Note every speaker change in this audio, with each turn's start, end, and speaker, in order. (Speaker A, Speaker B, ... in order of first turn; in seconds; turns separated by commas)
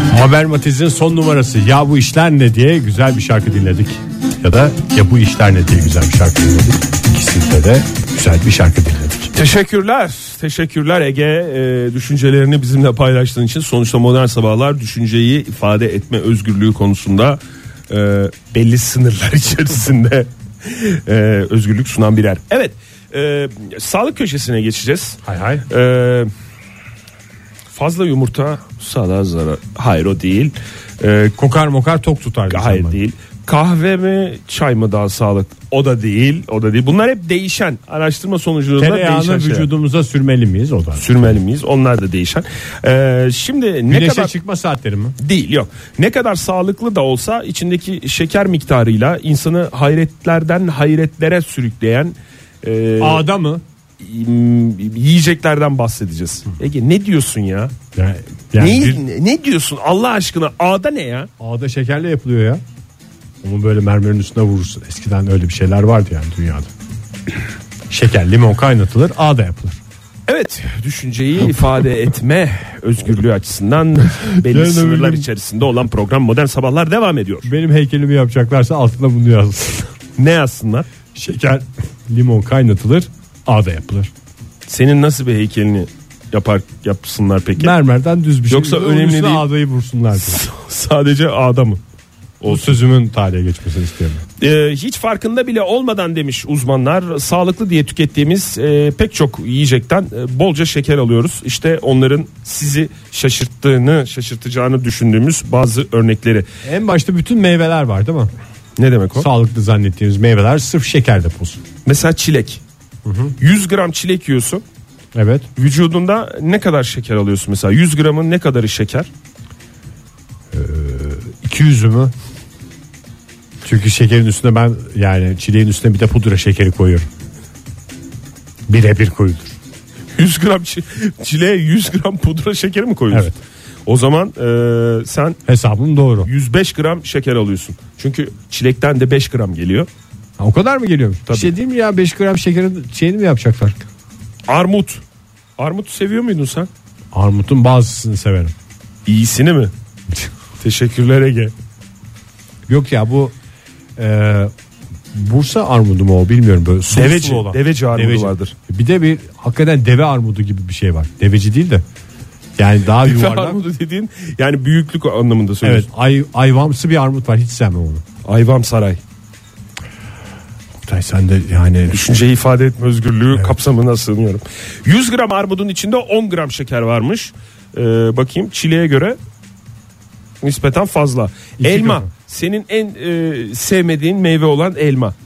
Speaker A: 0.1-9.3, Speaker B: 9.3-26.3, Speaker A: 25.2-25.7, Speaker B: 27.7-31.3, Speaker A: 31.4-33.0, Speaker B: 32.5-39.7, Speaker A: 38.8-41.4, Speaker B: 41.0-44.3, Speaker A: 43.9-45.2, Speaker B: 45.2-53.3, Speaker A: 53.0-53.6, Speaker B: 54.0-57.7, Speaker A: 58.0-59.0, Speaker B: 58.6-61.3, Speaker A: 61.4-62.6, Speaker A: 63.4-66.7, Speaker A: 67.9-69.8, Speaker B: 70.3-77.5, Speaker A: 74.4-75.3, Speaker A: 77.5-79.9, Speaker B: 80.2-80.9, Speaker A: 81.2-84.1, Speaker B: 84.7-87.8, Speaker A: 87.6-90.4, Speaker B: 88.5-89.5, Speaker B: 90.2-91.8, Speaker B: 92.4-92.8, Speaker A: 92.5-94.2, Speaker B: 94.4-106.5, Speaker A: 106.7-108.3, Speaker B: 108.8-109.3, Speaker A: 109.2-111.6, Speaker B: 111.9-112.6, Speaker A: 113.0-113.4, Speaker B: 113.4-114.6, Speaker A: 115.2-115.5, Speaker B: 115.6-119.1, Speaker A: 120.5-122.1, Speaker A: 123.6-127.1, Speaker A: 128.7-129.6, Speaker B: 130.2-133.3, Speaker B: 133.9-135.4, Speaker A: 135.5-136.3, Speaker B: 136.3-139.9, Speaker A: 140.4-143.8, Speaker B: 144.5-145.0, Speaker B: 145.6-146.7, Speaker A: 147.1-148.5, Speaker B: 149.1-149.7, Speaker B: 150.6-151.5, Speaker A: 152.7-153.3, Speaker A: 154.0-154.5, Speaker A: 155.1-161.8, Speaker B: 156.9-158.5, Speaker A: 162.6-163.6, Speaker B: 163.0-165.9, Speaker A: 165.6-168.0, Speaker B: 168.2-169.0, Speaker A: 170.8-172.0, Speaker B: 171.9-179.2, Speaker B: 180.4-185.1, Speaker A: 181.6-182.1